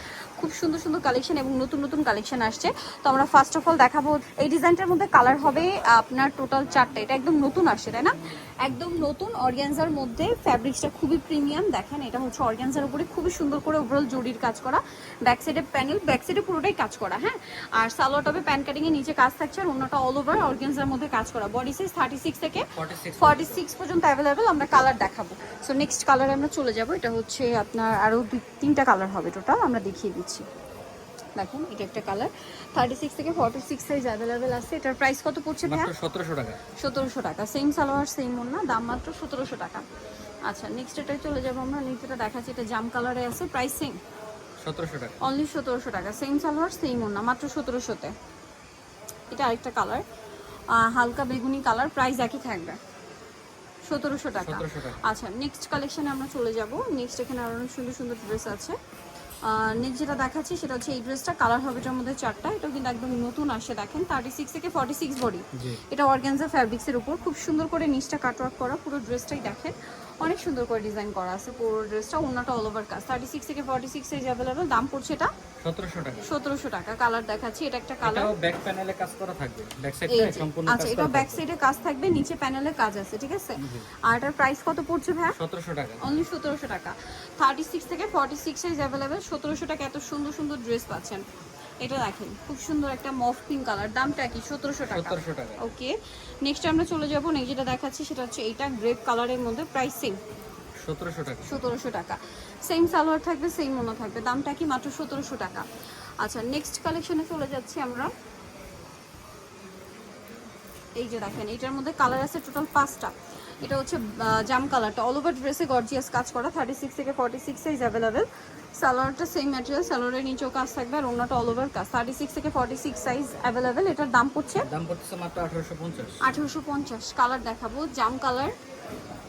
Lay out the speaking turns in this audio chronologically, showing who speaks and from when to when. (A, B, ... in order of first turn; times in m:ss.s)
0:00.4-0:30.5 A
0:22.8-0:23.6 B
0:31.4-0:35.9 A
0:35.6-0:36.6 B
0:36.8-0:39.8 A
0:40.4-0:44.0 A
0:44.6-0:45.2 B
0:45.2-0:48.2 A
0:49.3-0:50.0 A
0:50.7-0:52.8 A
0:53.8-0:58.8 A
0:54.4-0:55.0 B
0:59.4-1:15.3 A
1:05.6-1:05.8 B
1:15.6-1:16.3 B
1:16.2-1:18.3 A
1:18.0-1:21.4 B
1:20.1-1:25.4 A
1:23.6-1:23.9 B
1:25.3-1:26.2 B
1:26.0-1:31.2 A
1:31.8-1:40.2 A
1:34.9-1:35.6 B
1:40.8-1:41.6 B
1:41.4-1:45.7 A
1:46.2-1:48.1 A
1:51.0-1:58.3 A
1:58.8-2:04.7 A
2:04.6-2:06.2 B
2:06.2-2:08.6 A